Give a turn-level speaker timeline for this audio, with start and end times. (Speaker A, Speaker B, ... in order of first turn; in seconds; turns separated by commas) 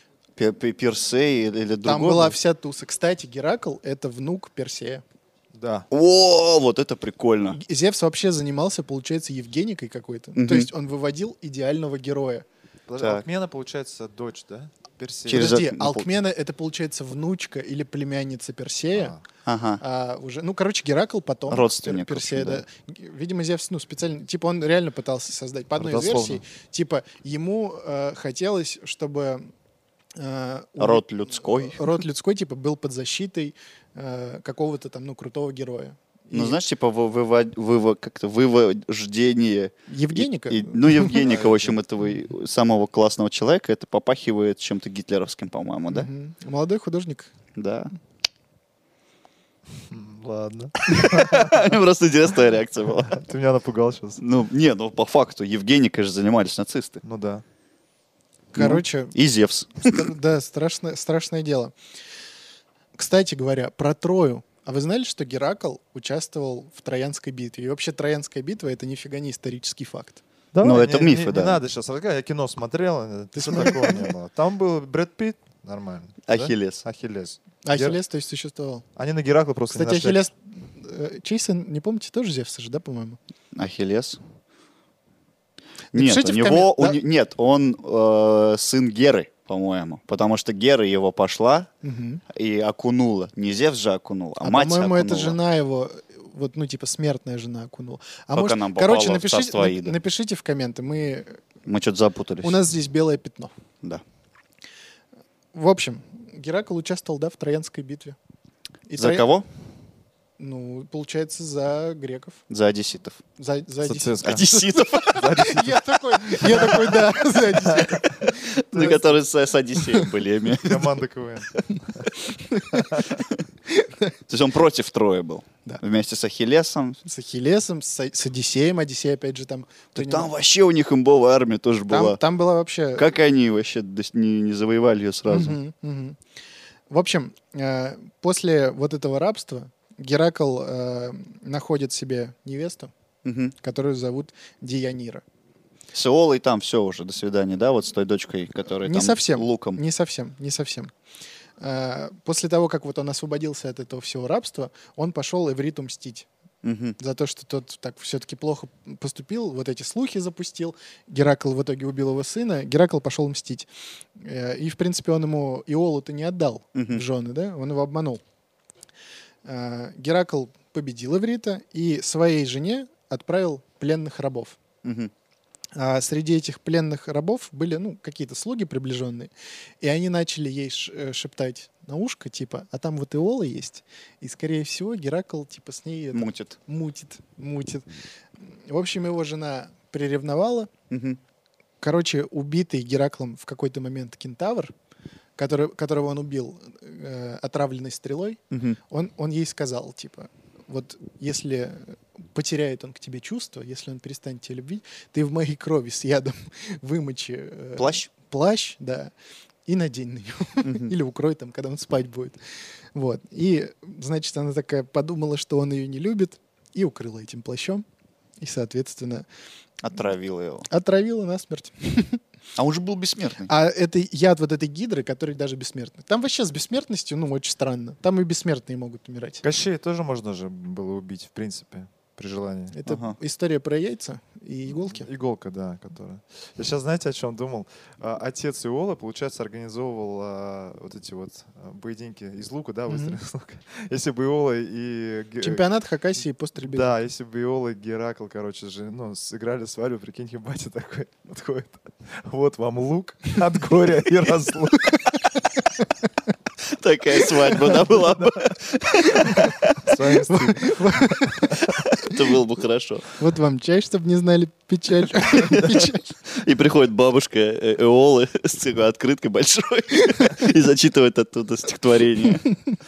Speaker A: 0.4-2.4, Speaker B: 1.9-5.0, Speaker C: 5.5-5.9, Speaker A: 5.9-7.6, Speaker B: 7.5-12.4, Speaker A: 10.3-10.7, Speaker C: 12.9-15.6, Speaker A: 15.3-16.1, Speaker B: 15.3-19.1, Speaker C: 18.9-19.2, Speaker A: 19.4-19.8, Speaker B: 19.8-29.5, Speaker A: 21.5-22.6, Speaker C: 25.8-26.4, Speaker B: 30.1-36.6, Speaker A: 30.8-31.9, Speaker A: 36.3-46.1, Speaker B: 39.9-41.2, Speaker C: 41.2-41.8, Speaker B: 45.9-47.3, Speaker A: 47.5-47.9, Speaker C: 49.8-51.8, Speaker A: 50.8-53.2, Speaker C: 53.0-54.2, Speaker A: 54.2-57.0, Speaker C: 57.0-57.4, Speaker B: 58.5-59.1, Speaker A: 58.6-60.1, Speaker B: 59.8-61.7, Speaker B: 62.9-70.2, Speaker C: 70.5-78.0, Speaker A: 70.6-71.6, Speaker B: 73.3-74.1, Speaker A: 76.2-76.8, Speaker B: 77.6-78.8, Speaker C: 79.0-80.2, Speaker B: 79.7-83.2, Speaker A: 83.5-84.2, Speaker A: 85.9-91.7, Speaker B: 85.9-87.0, Speaker B: 91.8-92.2, Speaker A: 92.3-95.4, Speaker B: 94.4-101.4, Speaker A: 98.3-100.0, Speaker A: 101.7-102.6, Speaker B: 102.4-103.5, Speaker B: 105.5-108.2, Speaker B: 108.9-109.2, Speaker A: 109.0-109.5, Speaker B: 110.4-112.4, Speaker A: 112.5-113.2, Speaker B: 113.4-119.2, Speaker C: 113.8-114.4, Speaker A: 114.2-115.4, Speaker C: 115.1-116.9, Speaker C: 117.5-118.0, Speaker A: 118.1-120.9, Speaker B: 119.7-120.1, Speaker C: 120.6-122.1, Speaker B: 122.2-124.1, Speaker C: 122.7-123.0, Speaker A: 123.0-123.4, Speaker A: 124.3-127.0, Speaker B: 127.0-130.3, Speaker A: 129.9-132.2, Speaker B: 131.9-133.1, Speaker A: 132.9-135.6, Speaker B: 135.3-136.2, Speaker B: 136.9-142.9, Speaker A: 143.2-143.5, Speaker B: 143.6-145.2, Speaker A: 145.9-149.8, Speaker B: 148.8-150.9, Speaker B: 151.6-156.3, Speaker A: 156.6-156.9, Speaker B: 157.0-168.2, Speaker A: 166.7-167.0, Speaker B: 169.4-174.6, Speaker A: 174.8-175.1, Speaker B: 175.7-179.3, Speaker B: 179.8-187.8, Speaker A: 186.1-186.6, Speaker B: 188.5-190.7, Speaker A: 190.9-191.2, Speaker B: 191.8-194.7, Speaker B: 195.4-209.1, Speaker A: 198.5-198.8, Speaker A: 207.8-208.1, Speaker B: 209.7-212.4, Speaker A: 210.6-210.9, Speaker B: 212.9-217.8, Speaker B: 218.4-219.2, Speaker A: 219.8-220.7, Speaker B: 220.7-222.2, Speaker A: 222.6-223.5, Speaker B: 223.5-229.4, Speaker C: 229.4-232.8, Speaker B: 232.7-235.1, Speaker A: 232.8-233.2, Speaker C: 234.7-245.6, Speaker B: 242.9-243.2, Speaker B: 245.4-246.9, Speaker C: 246.6-255.1, Speaker A: 256.7-259.8, Speaker C: 257.7-258.4, Speaker C: 259.4-261.7, Speaker B: 260.3-261.6, Speaker A: 261.7-263.1, Speaker B: 263.2-266.0, Speaker A: 265.5-272.5